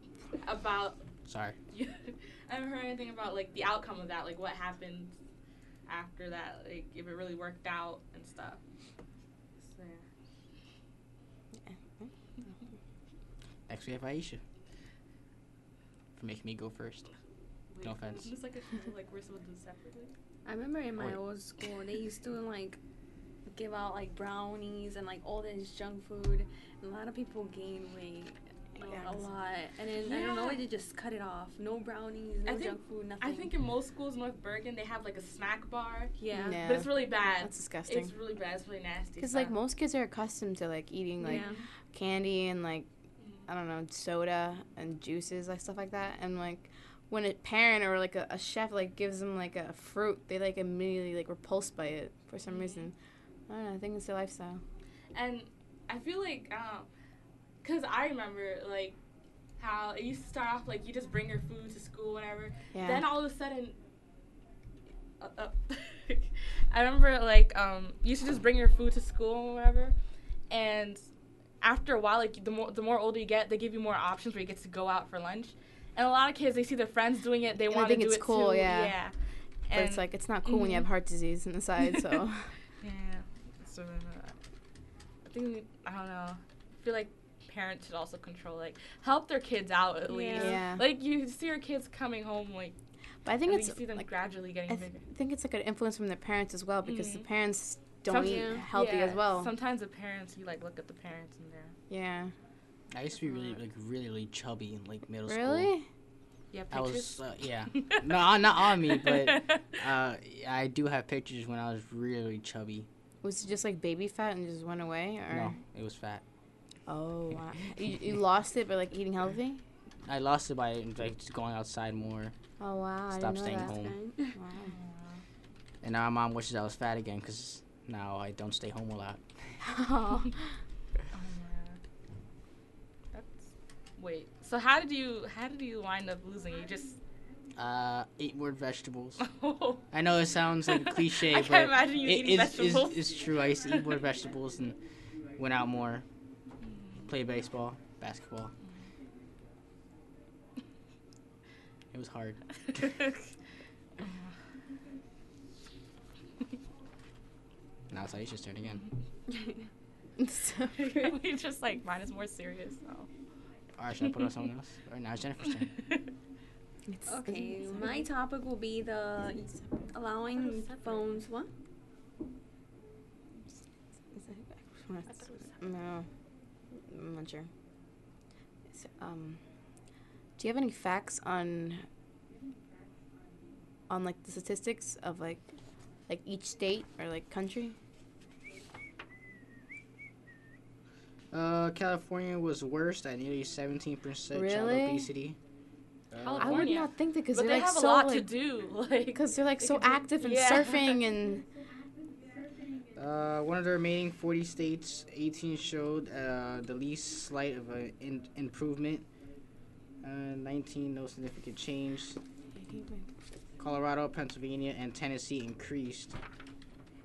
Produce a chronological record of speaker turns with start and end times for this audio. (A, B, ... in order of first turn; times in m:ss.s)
0:00.4-0:01.1 A
0:01.2-0:01.6 B
0:01.7-0:05.2 A
0:05.8-0:08.6 A
0:09.6-0:10.1 A
0:11.6-0:12.7 C
0:13.7-0:14.4 B
0:16.1-0:17.1 B
0:17.7-0:20.1 A
0:17.8-0:18.3 B
0:20.4-0:22.8 D
0:23.5-0:28.4 D
0:28.8-0:29.3 A
0:28.8-0:29.2 C
0:28.9-0:33.5 D
0:30.0-0:30.6 A
0:32.4-0:39.5 A
0:36.2-0:36.6 D
0:36.3-0:38.1 C
0:39.2-0:42.9 C
0:41.2-0:41.6 D
0:41.3-0:41.7 A
0:43.2-0:43.5 A
0:43.5-0:52.9 C
0:52.5-0:52.9 A
0:53.5-0:54.6 C
0:55.1-0:56.9 A
0:57.6-0:59.0 A
0:59.6-1:03.8 A
1:02.7-1:03.0 C
1:05.2-1:09.9 A
1:10.5-1:11.1 A
1:11.6-1:19.1 A
1:17.7-1:19.0 C
1:19.7-1:20.9 A
1:19.7-1:22.6 C
1:22.8-1:24.4 A
1:25.2-1:32.8 A
1:30.1-1:30.6 D
1:30.4-1:30.8 C
1:33.2-1:34.0 C
1:33.4-1:35.0 A
1:34.7-1:39.5 C
1:36.8-1:37.3 A
1:38.0-1:41.8 A
1:38.2-1:38.7 D
1:41.9-1:42.3 C
1:42.9-1:45.7 B
1:43.2-1:43.6 A
1:45.3-1:45.9 C
1:46.5-1:48.1 A
1:46.7-1:52.9 B
1:48.6-1:49.8 A
1:53.2-1:55.6 C
1:55.3-1:56.2 B
1:56.9-1:59.6 C
2:00.1-2:02.3 B
2:02.6-2:03.8 C
2:03.1-2:04.0 B
2:03.6-2:04.4 D
2:04.3-2:04.8 C
2:04.6-2:05.2 A
2:05.8-2:09.6 B
2:09.7-2:10.3 C
2:11.1-2:11.8 A
2:13.1-2:17.0 A
2:17.6-2:19.3 B
2:19.2-2:19.8 A
2:19.9-2:24.8 B
2:20.6-2:24.0 A
2:25.4-2:26.0 B
2:26.6-2:27.1 A
2:27.1-2:28.5 B
2:31.9-2:32.9 B
2:32.6-2:33.3 A
2:34.0-2:34.3 A
2:37.9-2:38.8 B
2:40.2-2:40.9 C
2:40.8-2:43.1 A
2:43.8-2:45.7 B
2:44.0-2:44.3 A
2:45.8-2:46.1 A
2:46.9-2:48.0 C
2:47.1-2:51.5 D
2:50.4-2:51.3 A
2:54.1-2:56.1 C
2:55.1-2:55.6 A
2:56.7-2:57.5 C
2:58.7-2:59.4 C
3:00.4-3:01.8 C
3:03.9-3:05.4 C
3:06.1-3:07.8 C
3:11.3-3:15.4 B
3:14.3-3:15.1 C
3:16.1-3:16.7 B
3:16.2-3:21.0 A
3:16.4-3:18.3 C
3:19.1-3:21.4 C
3:22.9-3:29.1 B
3:30.0-3:32.2 B
3:32.5-3:33.1 C
3:33.6-3:36.2 B